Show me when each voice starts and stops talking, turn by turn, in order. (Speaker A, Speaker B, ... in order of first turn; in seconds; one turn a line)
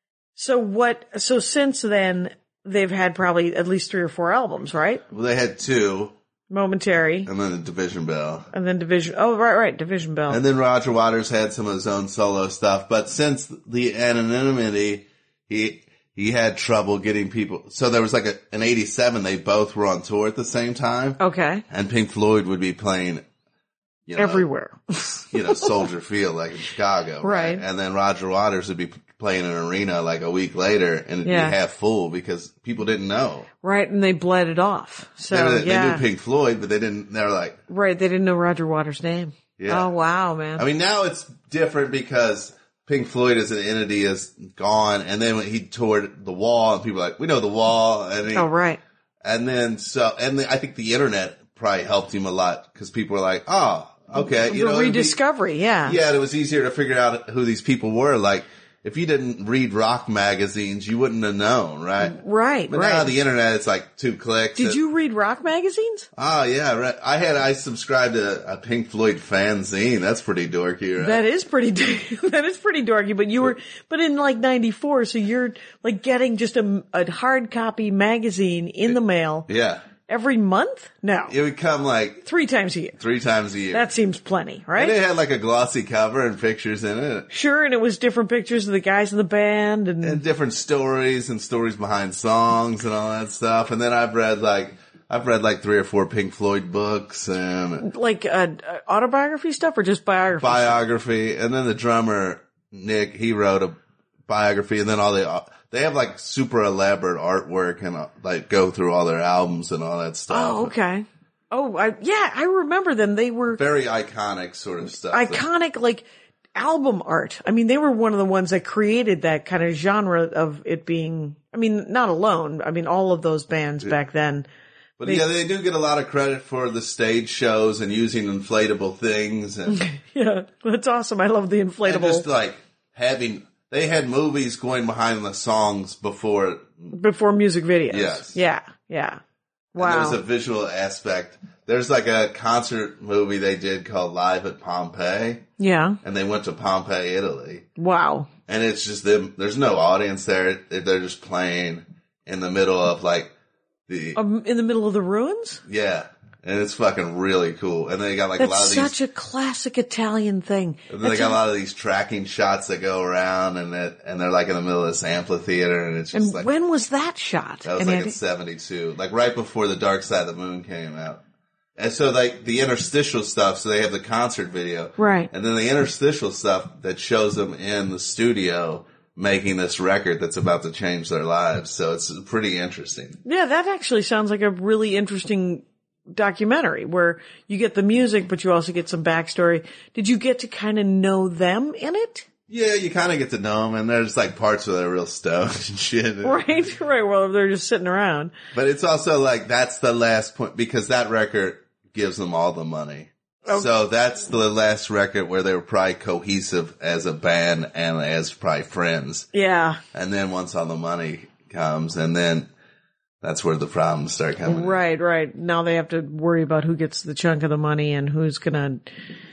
Speaker A: 0.4-5.0
Speaker B: 5.1-6.1
Speaker A: 6.5-7.3
Speaker B: 7.3-8.5
Speaker A: 8.5-10.4
Speaker B: 10.3-23.2
Speaker A: 21.2-21.6
Speaker B: 24.1-24.5
Speaker A: 24.2-25.7
Speaker B: 25.3-33.5
Speaker A: 27.2-27.6
Speaker A: 31.2-31.6
Speaker A: 33.6-36.0
Speaker B: 35.3-37.6
Speaker A: 37.7-40.6
Speaker B: 39.6-39.9
Speaker B: 40.6-48.5
Speaker A: 48.3-48.8
Speaker B: 49.2-55.2
Speaker A: 54.2-56.0
Speaker B: 55.9-62.2
Speaker A: 62.0-63.1
Speaker B: 62.7-64.8
Speaker A: 64.6-66.1
Speaker B: 66.2-71.2
Speaker A: 71.0-79.5
Speaker B: 79.5-79.8
Speaker A: 80.1-81.4
Speaker B: 81.3-82.2
Speaker A: 82.2-83.0
Speaker B: 83.0-83.9
Speaker A: 83.7-85.0
Speaker B: 84.8-87.3
Speaker A: 87.3-90.2
Speaker B: 90.0-97.9
Speaker A: 97.8-100.8
Speaker B: 100.4-110.7
Speaker A: 110.3-113.6
Speaker B: 113.6-115.4
Speaker A: 115.1-124.5
Speaker B: 125.0-129.8
Speaker A: 129.7-132.2
Speaker B: 131.8-136.9
Speaker A: 136.9-139.2
Speaker B: 137.9-138.4
Speaker A: 139.8-140.2
Speaker B: 139.8-145.5
Speaker A: 145.6-146.0
Speaker B: 146.0-147.7
Speaker A: 147.8-148.3
Speaker B: 148.5-153.3
Speaker B: 153.9-154.2
Speaker A: 154.2-155.6
Speaker B: 155.7-158.9
Speaker A: 158.4-161.4
Speaker B: 160.9-166.5
Speaker A: 166.1-168.2
Speaker B: 167.6-171.2
Speaker B: 171.8-183.2
Speaker A: 175.0-175.3
Speaker A: 183.2-192.3
Speaker B: 192.5-196.4
Speaker A: 196.2-198.3
Speaker B: 198.5-209.3
Speaker A: 209.3-209.8
Speaker B: 209.9-212.5
Speaker B: 213.2-214.8
Speaker A: 214.4-218.9